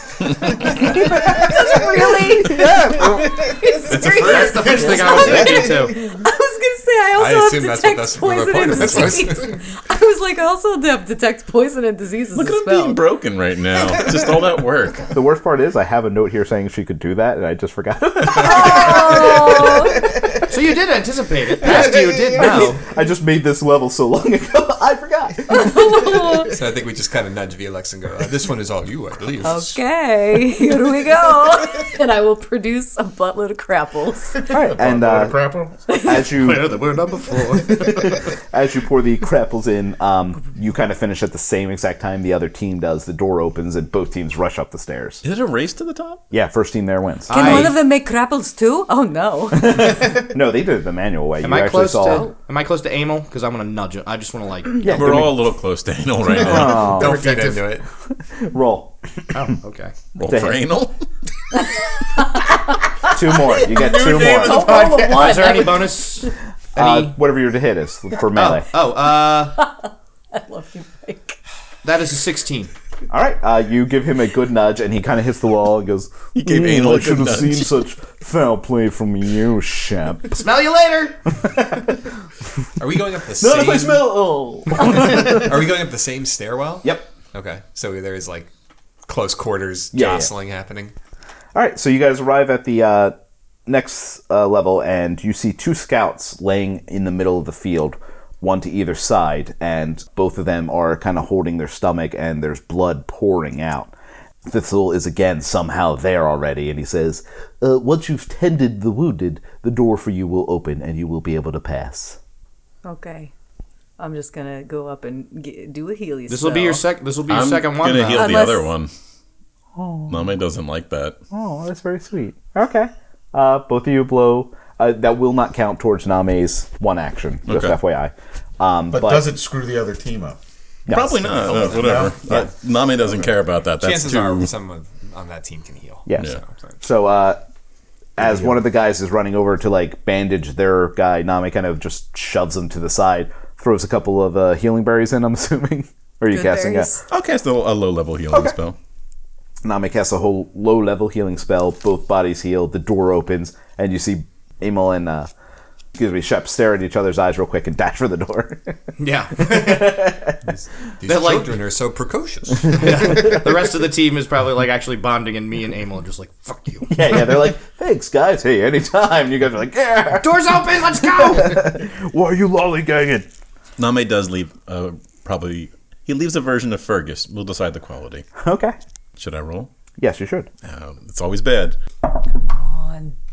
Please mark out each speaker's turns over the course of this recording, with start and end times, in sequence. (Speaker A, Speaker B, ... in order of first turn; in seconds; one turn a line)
Speaker A: 0.4-13.0
Speaker B: 0.6-3.2
Speaker C: 3.2-5.9
Speaker D: 3.8-5.3
Speaker E: 3.9-6.0
Speaker B: 5.0-5.8
Speaker D: 7.2-9.6
Speaker F: 12.3-15.1
Speaker B: 15.1-20.1
Speaker A: 18.4-20.1
Speaker C: 18.5-19.6
Speaker E: 20.5-22.8
Speaker B: 21.7-26.4
Speaker C: 21.9-22.4
Speaker A: 25.5-26.5
Speaker D: 26.5-29.8
Speaker A: 29.4-34.7
Speaker C: 34.4-35.8
Speaker B: 34.5-36.7
Speaker A: 35.9-36.3
Speaker E: 36.1-38.0
Speaker B: 37.7-45.2
Speaker F: 45.2-46.2
Speaker B: 46.3-47.8
Speaker E: 47.3-47.8
Speaker A: 47.3-50.0
Speaker B: 49.5-52.2
Speaker E: 51.4-54.8
Speaker A: 52.0-52.3
Speaker F: 54.8-57.0
Speaker B: 54.8-55.4
Speaker B: 56.4-57.2
Speaker C: 56.5-57.7
Speaker D: 56.5-57.8
Speaker B: 58.2-59.0
Speaker E: 59.3-59.9
Speaker F: 60.1-61.0
Speaker B: 60.3-60.6
Speaker A: 62.1-66.3
Speaker B: 63.1-64.9
Speaker C: 63.6-65.5
Speaker E: 64.7-67.2
Speaker B: 66.7-68.7
Speaker E: 68.3-69.6
Speaker A: 69.4-71.4
Speaker E: 71.8-72.7
Speaker B: 73.1-80.5
Speaker F: 76.3-77.8
Speaker E: 80.4-81.2
Speaker B: 81.5-82.0
Speaker D: 82.8-84.2
Speaker B: 83.4-85.4
Speaker D: 84.8-88.5
Speaker B: 86.8-87.1
Speaker D: 89.0-90.9
Speaker B: 89.9-90.3
Speaker B: 91.5-103.9
Speaker B: 104.4-112.2
Speaker A: 112.8-113.3
Speaker A: 114.0-116.8
Speaker E: 116.3-118.4
Speaker F: 117.3-118.9
Speaker A: 118.1-118.8
Speaker B: 119.8-120.3
Speaker F: 120.1-121.2
Speaker B: 121.3-129.3
Speaker F: 127.5-127.8
Speaker C: 128.9-130.4
Speaker B: 130.9-132.4
Speaker F: 130.9-134.5
Speaker C: 131.5-132.2
Speaker D: 133.8-136.8
Speaker B: 136.1-137.4
Speaker B: 138.2-146.9
Speaker C: 138.2-138.6
Speaker A: 146.3-147.0
Speaker F: 147.1-148.8
Speaker B: 149.6-155.3
Speaker B: 155.9-158.8
Speaker E: 159.0-160.1
Speaker B: 159.4-160.5
Speaker D: 161.0-163.2
Speaker E: 161.1-161.6
Speaker E: 162.7-167.1
Speaker B: 166.9-173.3
Speaker E: 170.1-171.7
Speaker F: 173.8-178.3
Speaker B: 178.4-178.8
Speaker F: 179.2-179.7
Speaker B: 180.0-180.5
Speaker F: 180.6-181.8
Speaker A: 182.2-183.1